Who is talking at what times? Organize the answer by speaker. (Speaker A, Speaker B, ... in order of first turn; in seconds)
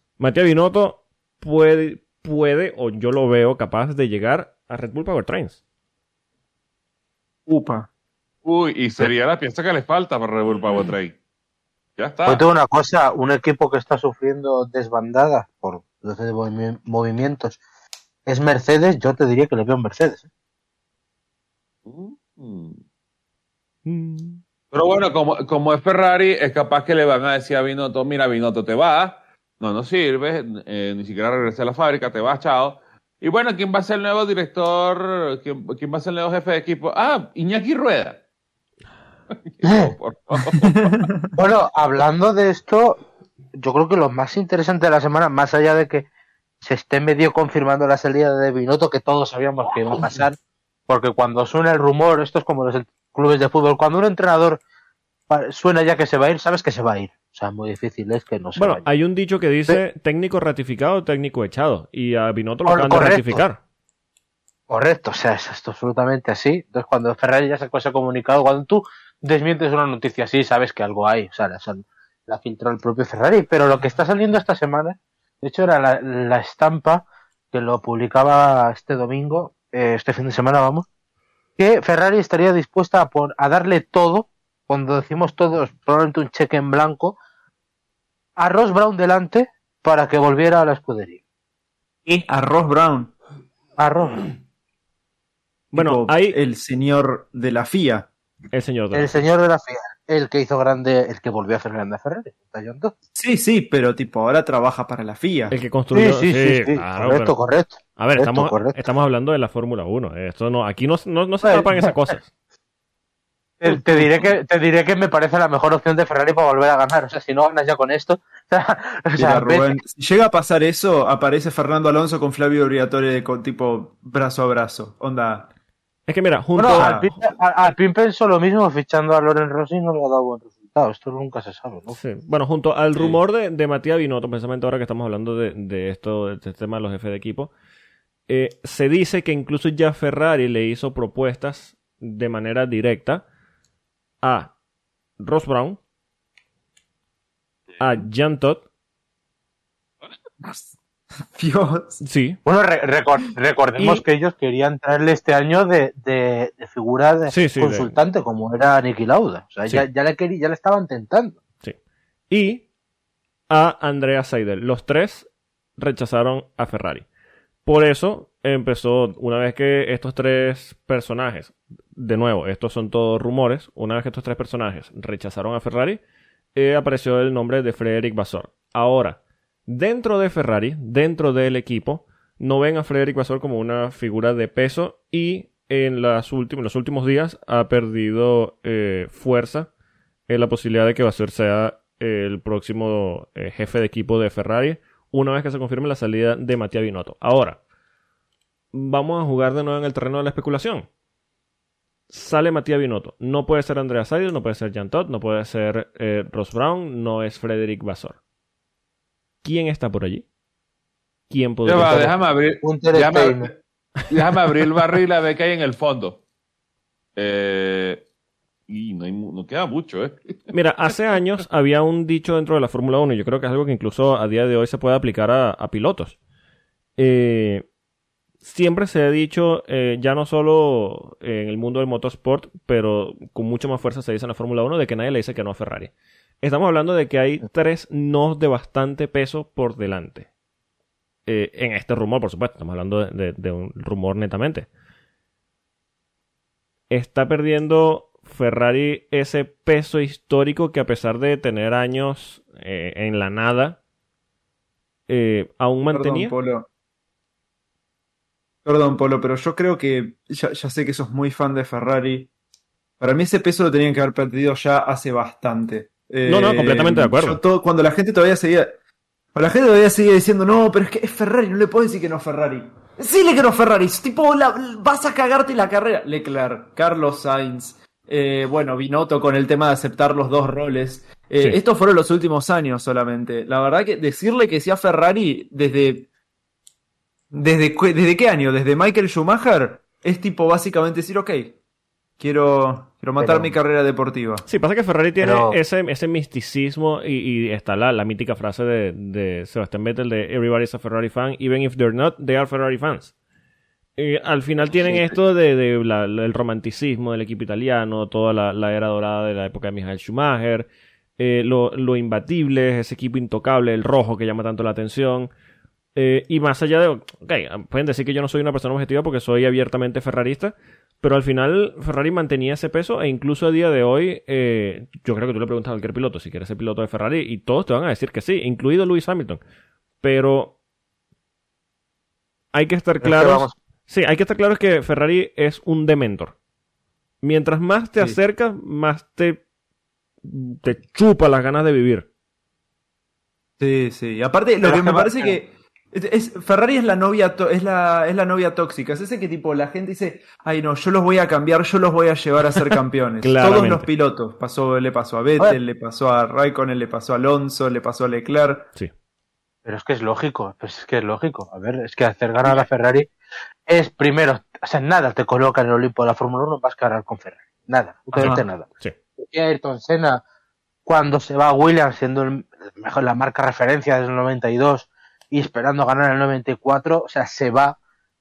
Speaker A: 0.2-5.6, 23.9-24.4, 58.5-63.6, 95.7-96.4, 98.5-99.1, 105.5-107.3, 108.0-112.3, 126.1-127.2, 131.9-137.5, 138.3-143.2, 144.2-144.5, 145.2-145.8, 147.8-148.6, 152.0-152.4, 153.8-154.0, 157.3-157.9, 162.3-162.6, 163.5-167.1, 167.6-176.0, 176.5-189.7, 190.3-197.6, 198.7-200.9, 202.1-208.2, 209.4-210.2, 211.3-212.1, 220.5-226.2, 227.0-227.7, 228.4-240.3, 241.2-244.7, 246.9-253.8, 255.1-256.3, 266.2-267.4, 294.5-303.1, 304.0-315.3, 315.9-329.4, 330.0-330.6, 332.5-336.3, 337.2-339.4, 340.2-342.1, 353.2-353.9, 368.2-368.9
Speaker B: 7.5-7.9, 40.8-41.3, 92.1-93.1, 95.7-98.1, 103.1-105.6, 113.7-114.0, 119.2-125.5, 126.8-127.1, 150.4-152.0, 255.9-256.7, 258.6-262.3, 263.0-268.7, 269.3-286.1, 287.3-291.6, 292.2-294.4, 343.6-358.7, 368.1-368.4
Speaker C: 8.4-11.2, 12.0-12.4, 21.9-22.8, 24.7-38.2, 39.3-41.1, 211.6-213.5, 214.1-216.2, 217.2-218.0, 218.7-220.4
Speaker D: 12.2-17.6, 18.2-20.2, 39.6-39.9, 41.4-43.0, 43.5-46.1, 46.6-50.4, 50.9-54.6, 55.3-58.9, 62.6-63.4, 64.7-80.8, 81.6-87.2, 88.4-91.2, 93.8-94.2, 98.9-102.9, 105.9-108.8, 111.4-111.9, 113.6-119.8, 126.6-132.0, 152.4-161.4, 212.6-213.5, 293.2-293.5, 295.2-295.6, 333.0-333.5, 344.6-345.4, 359.6-363.1, 363.7-368.7, 369.2-370.2, 370.9-377.8